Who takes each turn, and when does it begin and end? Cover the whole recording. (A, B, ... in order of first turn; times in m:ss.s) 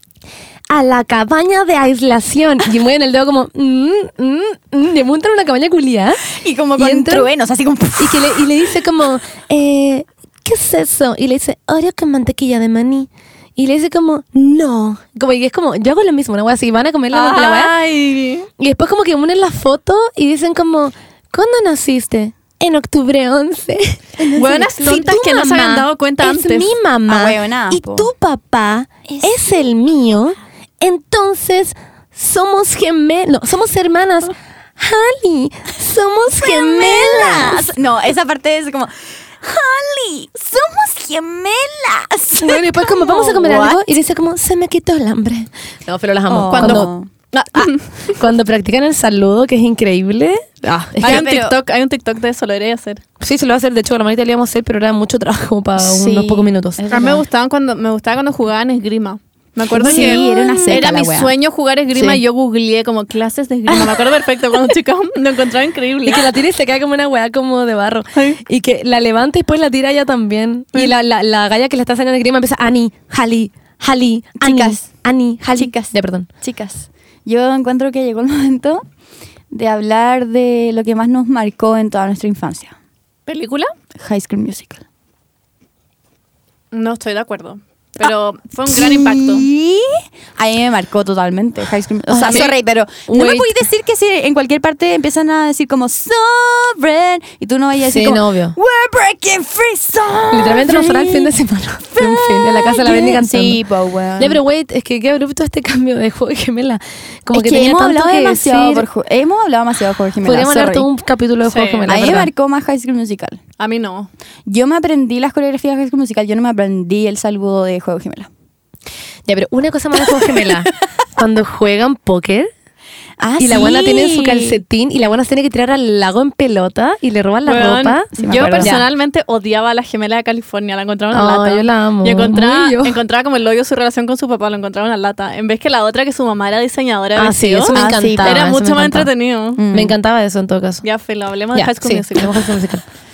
0:00.7-0:07.3 A
0:06.3-0:08.5 B
0:08.0-0:17.8 A
0:17.1-0:18.5 C
0:18.6-0:37.7 A
0:24.2-0:25.2 B
0:24.4-0:26.8 C
0:27.1-0:28.1 B
0:29.1-0:29.4 B
0:36.4-0:43.8 B
0:42.4-0:46.9 A
0:46.3-0:47.1 B
0:46.5-0:48.2 C
0:47.6-0:51.3 A
0:51.0-0:53.0 C
0:51.0-0:51.6 B
0:53.2-0:56.8 A
0:55.8-0:57.2 B
0:56.9-1:06.3 C
0:59.7-1:01.3 B
0:59.8-1:00.8 A
1:06.0-1:16.3 A
1:08.2-1:08.4 C
1:14.4-1:14.9 B
1:15.5-1:18.8 B
1:19.5-1:22.8 B
1:23.3-1:23.7 C
1:24.0-1:24.8 B
1:26.7-1:29.5 C
1:28.7-1:41.3 B
1:32.1-1:32.6 A
1:33.1-1:33.6 A
1:37.8-1:38.6 A
1:40.3-1:43.6 A
1:41.9-1:44.4 B
1:44.2-1:48.9 A
1:47.3-1:50.9 B
1:50.2-1:52.3 A
1:51.4-1:52.0 C
1:51.9-1:53.4 B
1:53.6-1:54.1 C
1:54.5-1:58.3 B
1:59.3-2:02.5 A
2:03.2-2:04.6 B
2:03.4-2:08.1 A
2:07.5-2:19.6 C
2:08.2-2:08.8 B
2:08.6-2:08.8 A
2:11.1-2:13.0 A
2:17.2-2:19.1 A
2:17.7-2:18.5 B
2:19.6-2:20.0 B
2:19.7-2:20.8 A
2:20.8-2:22.5 C
2:21.5-2:22.8 A